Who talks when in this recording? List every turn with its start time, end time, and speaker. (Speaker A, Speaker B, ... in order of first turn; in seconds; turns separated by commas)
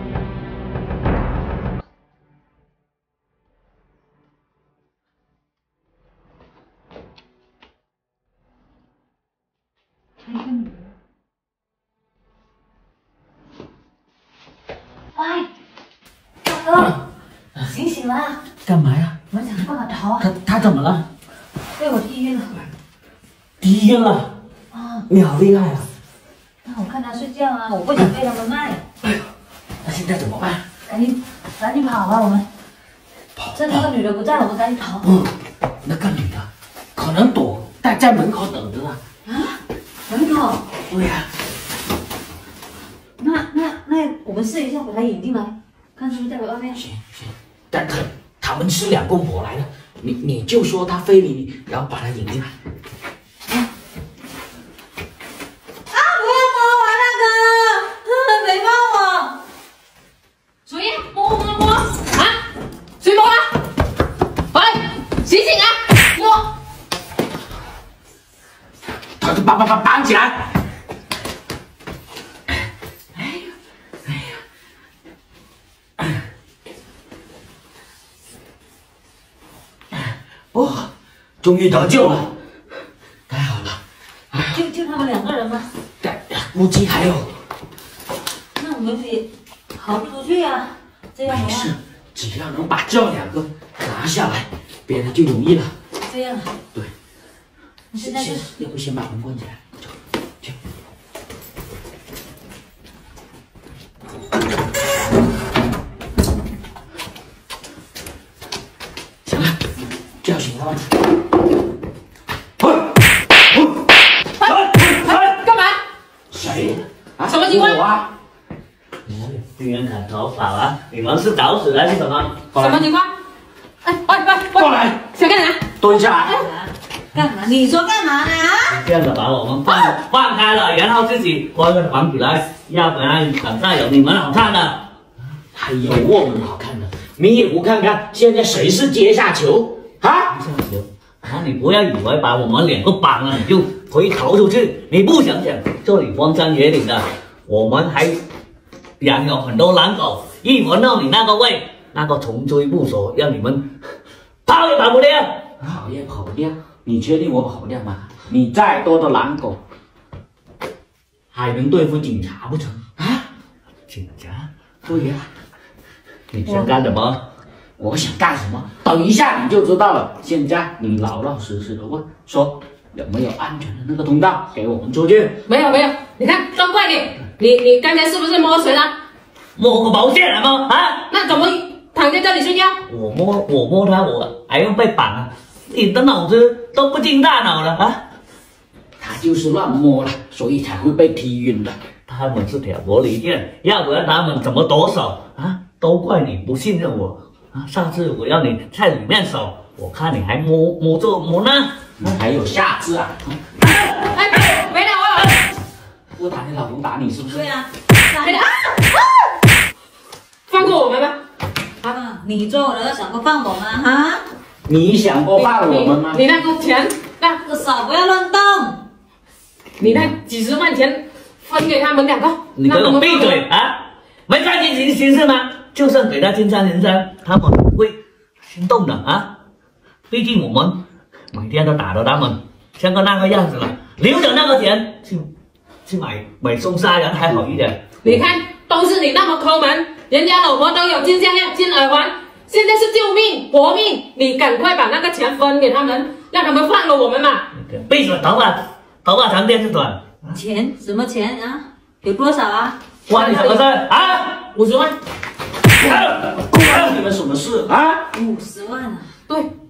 Speaker A: 10.2-10.7, Speaker A: 15.2-15.5, Speaker A: 16.4-17.0, Speaker A: 17.6-18.4, Speaker B: 18.7-19.1, Speaker A: 19.3-20.3, Speaker B: 20.2-20.9, Speaker A: 21.8-22.6, Speaker C: 23.6-24.2, Speaker A: 24.7-25.1, Speaker B: 25.1-25.9, Speaker A: 26.6-28.8, Speaker B: 29.8-30.6, Speaker A: 30.9-32.5, Speaker B: 33.4-33.9, Speaker A: 33.5-35.1, Speaker B: 35.0-35.3, Speaker B: 35.8-39.0, Speaker A: 39.3-40.6, Speaker B: 40.9-41.3, Speaker A: 43.2-46.8, Speaker B: 46.8-52.5, Speaker A: 55.9-59.4, Speaker D: 60.7-62.4, Speaker D: 63.0-63.5, Speaker D: 64.5-66.5, Speaker B: 69.2-70.5, Speaker B: 73.2-73.5, Speaker B: 74.1-74.4, Speaker B: 80.5-80.9, Speaker B: 81.4-82.3, Speaker B: 83.3-83.8, Speaker B: 84.3-84.6, Speaker A: 84.5-85.7, Speaker B: 86.0-87.3, Speaker A: 88.5-91.7, Speaker B: 91.3-95.7, Speaker A: 96.0-96.5, Speaker A: 97.9-98.5, Speaker B: 97.9-100.5, Speaker B: 109.2-109.6, Speaker B: 110.2-110.9, Speaker D: 114.4-115.8, Speaker B: 116.3-118.1, Speaker D: 117.2-117.8, Speaker C: 119.0-122.5, Speaker B: 122.5-122.8, Speaker D: 122.5-123.1, Speaker D: 123.9-125.7, Speaker B: 124.6-125.0, Speaker B: 125.8-126.5, Speaker A: 126.2-128.8, Speaker C: 128.7-134.8, Speaker B: 135.5-140.3, Speaker C: 140.3-148.2, Speaker C: 149.0-153.7, Speaker C: 154.4-155.5, Speaker B: 155.6-159.6, Speaker B: 161.3-163.2, Speaker C: 163.9-164.5, Speaker B: 164.8-165.3, Speaker C: 166.3-167.2, Speaker B: 167.8-175.4, Speaker D: 175.5-178.9, Speaker C: 179.6-181.1, Speaker D: 181.1-182.8, Speaker C: 182.9-188.0, Speaker B: 189.0-191.8, Speaker C: 192.1-201.8, Speaker B: 202.0-203.4, Speaker D: 204.0-205.5, Speaker B: 206.1-207.5, Speaker A: 207.3-208.8, Speaker D: 208.2-208.6, Speaker D: 210.5-211.2, Speaker A: 211.8-214.2, Speaker B: 214.7-216.2, Speaker D: 215.3-217.4, Speaker A: 217.4-218.8, Speaker D: 219.8-223.4, Speaker B: 219.8-220.1, Speaker C: 222.6-228.0, Speaker C: 228.5-229.3, Speaker C: 230.1-230.8, Speaker C: 231.3-235.3, Speaker C: 235.8-237.9, Speaker D: 238.0-247.4, Speaker C: 247.5-250.0, Speaker A: 250.3-252.8, Speaker C: 253.1-254.4, Speaker D: 253.1-254.9, Speaker C: 255.8-256.4, Speaker B: 255.9-258.1, Speaker A: 258.1-259.1